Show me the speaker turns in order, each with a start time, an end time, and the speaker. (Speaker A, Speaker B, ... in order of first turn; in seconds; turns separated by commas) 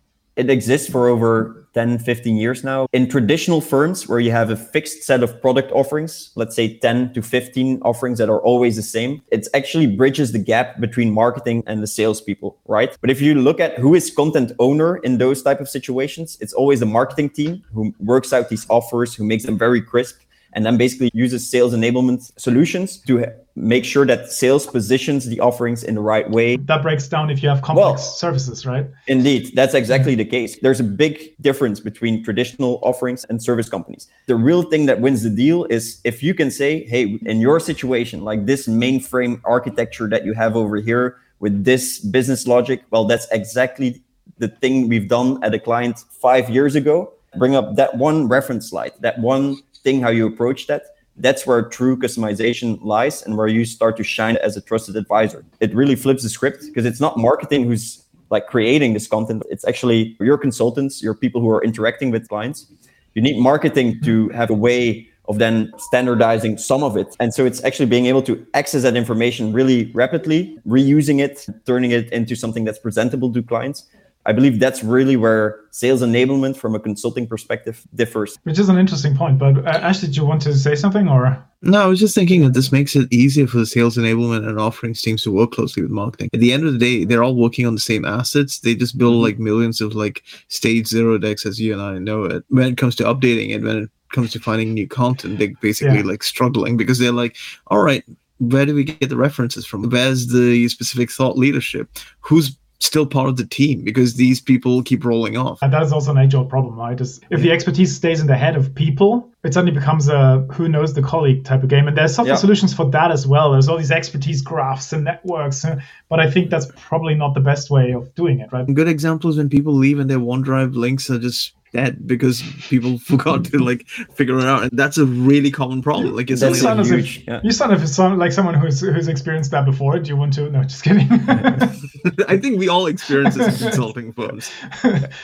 Speaker A: 0.3-26.6, Speaker B: 26.6-28.9, Speaker A: 27.7-28.1, Speaker A: 29.1-78.3, Speaker B: 78.4-81.4, Speaker C: 81.6-105.6, Speaker B: 95.8-96.0, Speaker B: 105.6-118.7, Speaker C: 118.7-126.8, Speaker A: 126.3-127.4, Speaker B: 126.4-131.7, Speaker C: 132.0-134.5, Speaker B: 133.4-133.7, Speaker B: 134.8-135.1